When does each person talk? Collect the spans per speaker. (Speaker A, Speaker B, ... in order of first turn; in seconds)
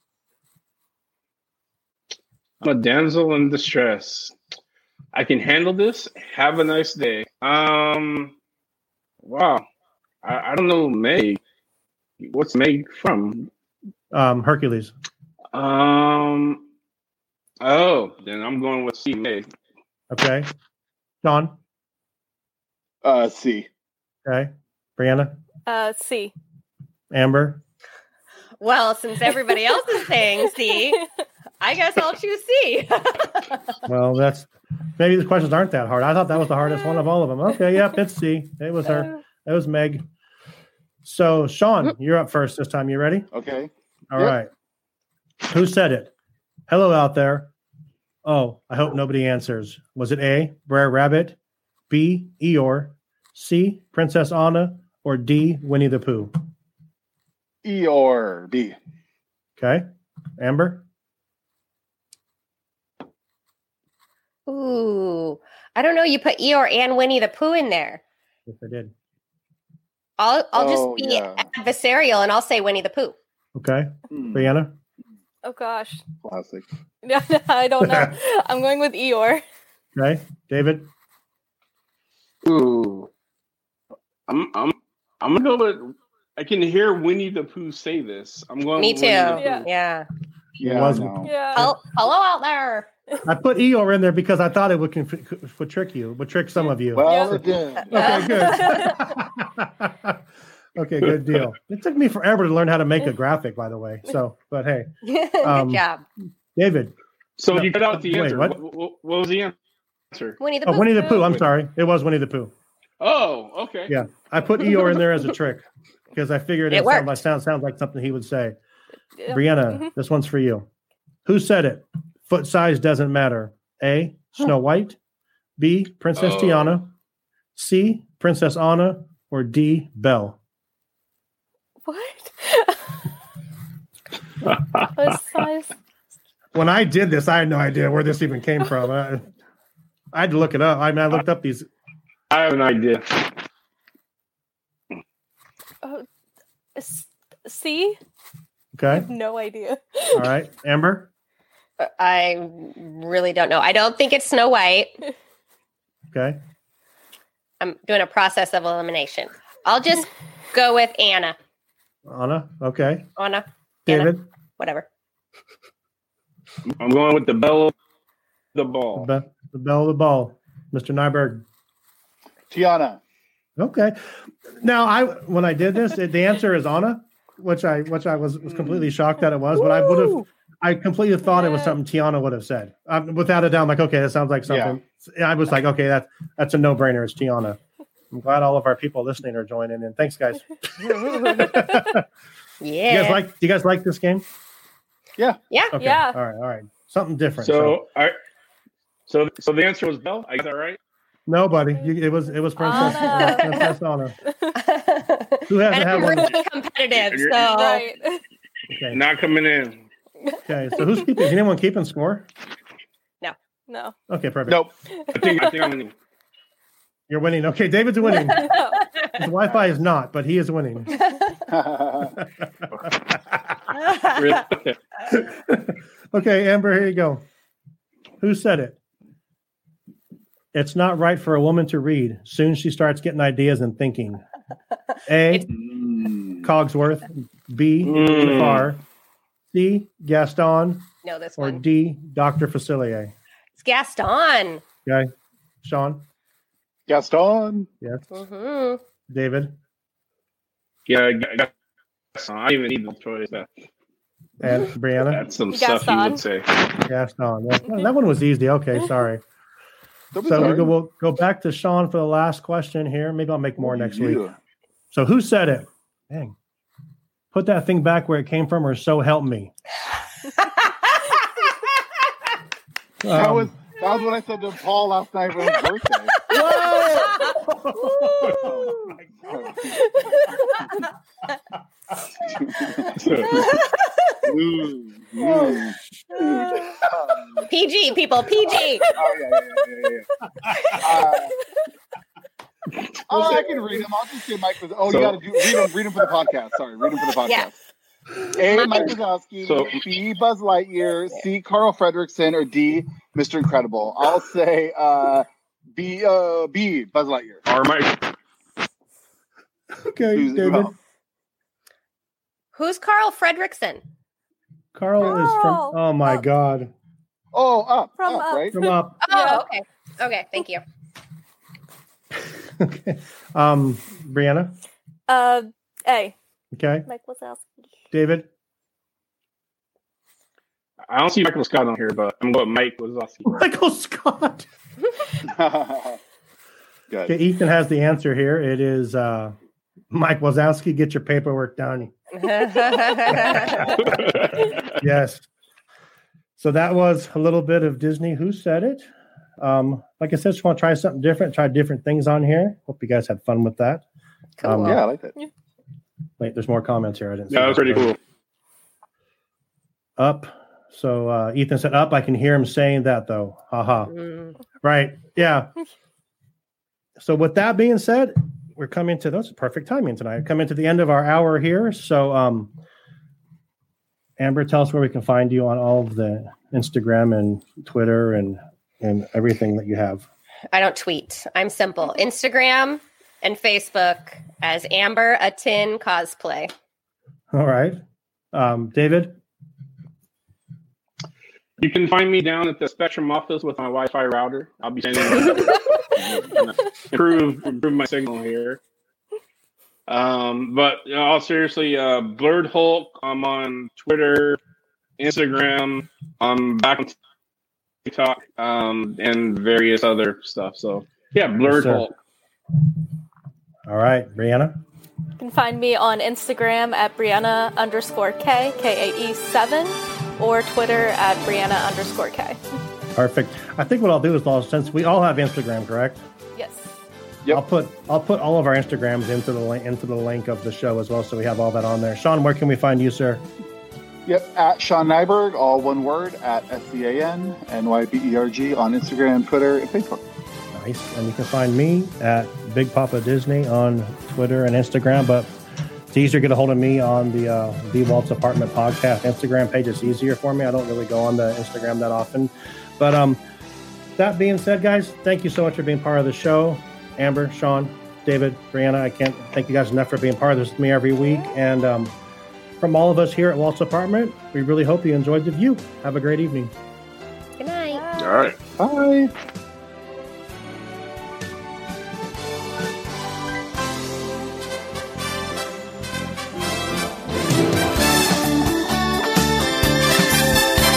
Speaker A: 2.6-4.4, 5.1-8.4, 9.2-9.7, 10.2-11.4, 12.2-13.5, 15.5-16.7, 17.6-19.5, 82.4-83.1, 84.3-89.6, 101.1-101.4, 107.4-109.6, 110.1-110.4, 113.0-114.0, 126.2-126.8, 134.5-134.9, 142.3-143.4, 166.7-167.8, 168.6-169.1, 197.4-198.2, 199.1-200.8, 207.0-207.4, 208.9-209.9, 215.1-215.9, 224.1-224.8, 237.8-238.7, 250.9-251.5, 252.2-253.5, 255.1-256.7, 283.0-283.5, 294.9-295.2, 299.4-299.8, 307.5-308.2, 330.9-333.4, 343.7-344.8, 357.3-358.0, 391.6-398.6, 399.9-404.4, 405.0-406.9, 407.9-412.0, 468.0-468.4
Speaker B: 14.1-14.9, 20.1-20.5, 21.2-21.6, 24.2-25.4, 27.1-27.6, 33.9-40.0, 41.0-43.3, 44.1-44.5, 45.5-46.1, 46.7-47.5, 48.2-51.4, 51.9-56.3, 59.6-59.9, 60.4-60.9, 68.5-68.9, 73.5-74.8, 77.8-78.2, 80.0-80.9, 90.6-91.7, 93.2-100.2, 100.8-105.8, 106.5-106.9, 107.5-108.6, 110.7-112.5, 113.9-118.6, 119.3-120.7, 121.3-125.0, 125.6-126.9, 127.6-130.4, 136.6-139.3, 140.1-141.7, 148.7-149.1, 150.1-151.1, 156.1-156.4, 162.1-163.1, 163.9-164.3, 168.9-171.5, 173.6-187.6, 188.1-190.5, 191.0-192.1, 192.9-194.2, 195.7-197.8, 201.3-204.2, 205.5-206.3, 208.7-209.0, 210.5-212.3, 214.1-214.6, 217.1-218.6, 219.1-220.9, 222.2-223.6, 225.1-227.3, 228.2-228.8, 230.5-234.2, 235.1-235.5, 236.4-238.8, 239.5-243.1, 245.6-246.1, 249.1-249.6, 254.4-255.2, 256.9-259.2, 260.2-264.2, 264.9-266.4, 267.3-269.5, 273.0-273.5, 276.3-279.1, 286.2-286.5, 309.8-310.7, 314.7-316.7, 318.5-319.0, 322.2-324.6, 326.5-326.9, 327.9-328.3, 333.3-334.5, 337.1-339.4, 339.9-341.9, 343.1-344.0, 344.8-345.3, 346.4-348.9, 349.4-353.8, 354.4-354.8, 356.2-358.0, 360.0-363.9, 364.6-365.5, 367.0-372.5, 374.2-380.1, 387.3-387.8, 388.3-389.2, 411.4-411.9, 413.7-414.6, 422.9-426.0, 427.3-433.2, 440.5-445.3, 445.9-453.2, 454.0-461.9, 462.6-466.5
Speaker C: 23.0-23.7, 43.3-44.4, 57.6-58.8, 70.6-71.5, 74.1-74.5, 76.2-76.7, 90.6-91.3, 96.9-98.3, 172.5-173.0, 178.5-178.9, 179.6-180.2, 184.5-184.8, 221.5-222.2, 235.5-236.5, 246.9-247.7, 260.1-260.7, 263.6-264.4, 273.1-276.2, 278.3-279.8, 282.2-283.5, 284.2-285.8, 286.8-287.5, 289.0-290.1, 290.8-291.4, 293.1-297.6, 298.3-307.4, 310.1-310.7, 317.3-318.6, 335.2-336.0, 336.9-337.1, 354.6-355.2, 434.1-440.0, 468.6-469.1
Speaker D: 25.7-26.3, 75.4-76.0, 77.0-79.4, 89.4-89.7, 91.2-91.7, 97.1-97.4, 98.0-99.0, 119.2-119.9, 131.9-132.9, 135.0-135.7, 146.8-148.0, 148.9-150.3, 181.4-181.8, 195.8-196.2, 202.6-203.7, 204.2-204.6, 205.9-206.5, 207.3-208.2, 210.2-211.1, 213.7-213.9, 214.9-215.6, 218.2-218.8, 255.5-256.2, 279.9-280.7, 286.2-286.6, 315.0-316.2, 318.0-319.4, 325.1-326.1, 326.9-327.6, 415.2-422.4, 426.4-426.8, 461.0-461.3, 467.7-468.1
Speaker E: 28.6-31.0, 31.6-33.7, 64.5-68.0, 70.2-73.2, 88.8-90.1, 91.5-92.9, 97.9-99.0, 105.0-106.0, 110.4-111.4, 116.7-117.2, 151.8-154.9, 157.6-161.4, 163.2-164.9, 192.6-193.2, 203.1-203.6, 204.6-207.8, 223.8-224.4, 241.0-241.6, 243.6-244.6, 248.1-248.8, 270.4-271.2, 286.2-286.7, 287.5-288.9, 298.5-298.9, 312.5-313.8, 319.0-320.6, 342.2-343.6, 354.4-354.8, 363.9-364.3, 380.5-386.5, 467.4-467.8